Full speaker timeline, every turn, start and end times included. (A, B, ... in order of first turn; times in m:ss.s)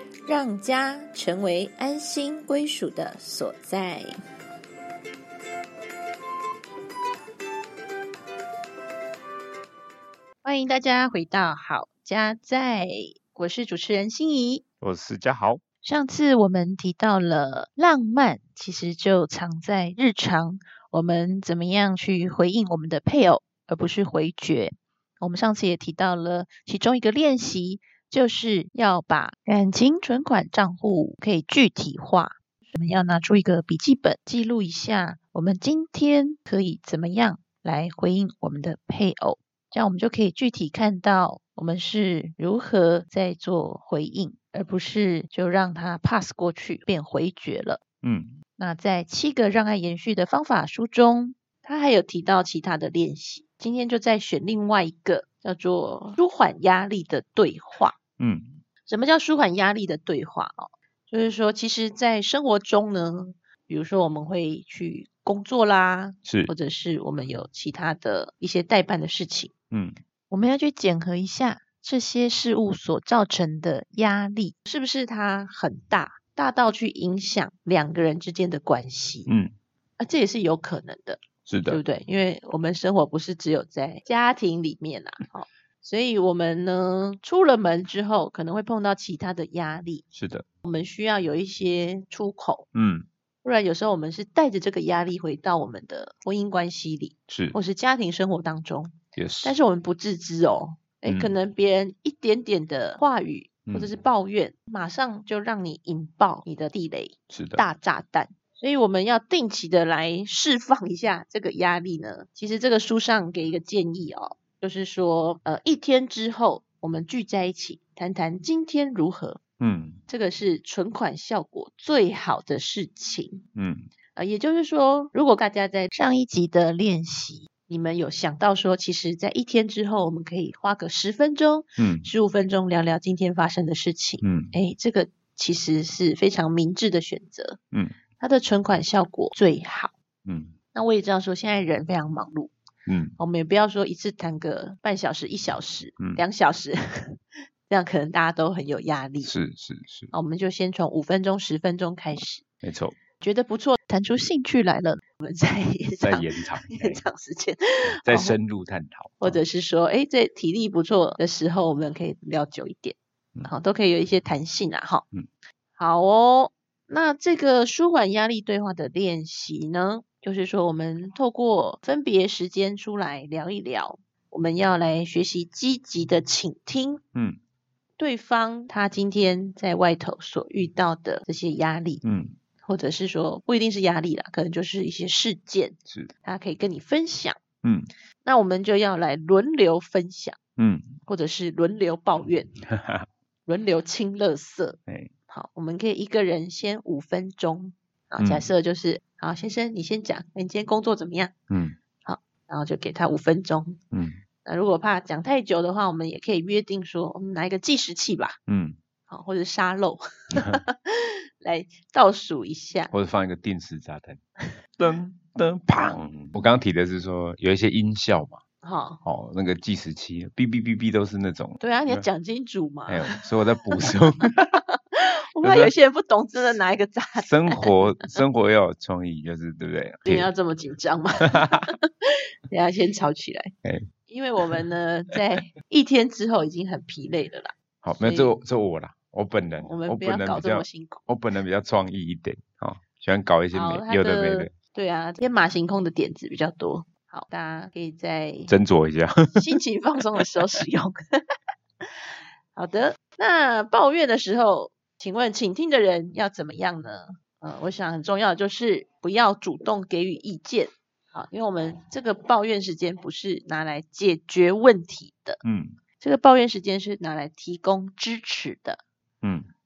0:00.2-0:04.2 A
0:10.4-0:14.6 A
0:14.8-0:15.6 B
0:15.8-0:47.8 A
0:48.0-0:48.4 B
0:48.6-0:58.0 A
0:58.2-0:58.6 B
0:58.9-1:09.5 A
1:06.2-1:06.5 B
1:09.7-1:10.0 B
1:10.3-1:19.3 A
1:19.3-1:19.5 B
1:20.0-1:30.0 A
1:21.4-1:21.8 B
1:30.1-1:30.4 B
1:30.6-1:32.7 A
1:32.7-1:33.1 B
1:33.4-1:59.4 A
1:37.3-1:37.6 B
1:39.2-1:39.6 B
1:41.0-1:41.3 B
1:47.3-1:47.6 B
1:59.6-2:00.0 B
2:00.1-2:03.4 A
2:03.6-2:03.9 B
2:04.1-2:17.6 A
2:11.8-2:12.1 B
2:14.2-2:14.5 B
2:18.2-2:19.9 A
2:20.2-2:20.6 B
2:20.7-2:22.5 A
2:22.8-2:23.2 B
2:23.2-2:29.3 A
2:29.2-2:30.1 B
2:30.1-2:32.4 A
2:32.1-2:33.0 B
2:33.2-2:38.4 A
2:36.0-2:37.0 B
2:37.8-2:39.4 B
2:39.2-2:45.0 A
2:45.8-2:57.0 A
2:58.0-3:02.0 A
3:02.0-3:02.3 B
3:02.6-3:07.4 A
3:07.6-3:07.9 B
3:08.2-3:10.4 A
3:10.6-3:11.0 B
3:11.0-3:12.5 A
3:12.7-3:13.0 B
3:13.4-3:21.3 A
3:18.2-3:18.5 B
3:21.5-3:21.8 B
3:22.0-3:23.8 A
3:23.9-3:24.2 B
3:24.4-3:28.4 A
3:28.5-3:28.8 B
3:29.1-3:32.9 A
3:30.3-3:30.6 B
3:32.9-3:34.2 B
3:34.8-3:38.4 B
3:38.6-3:39.0 A
3:39.0-3:42.1 B
3:41.6-3:43.2 A
3:42.9-3:44.5 B
3:43.7-3:48.2 A
3:45.4-3:45.7 B
3:47.2-3:50.3 B
3:50.0-3:51.8 A
3:52.5-3:53.5 A
3:54.1-3:58.4 A
3:57.8-4:04.5 B
3:59.6-4:01.1 A
4:03.5-4:08.5 A
4:08.5-4:09.5 B
4:09.3-4:11.2 A
4:12.5-4:25.4 A
4:25.4-4:25.8 B
4:26.0-4:28.8 A
4:29.2-4:29.5 B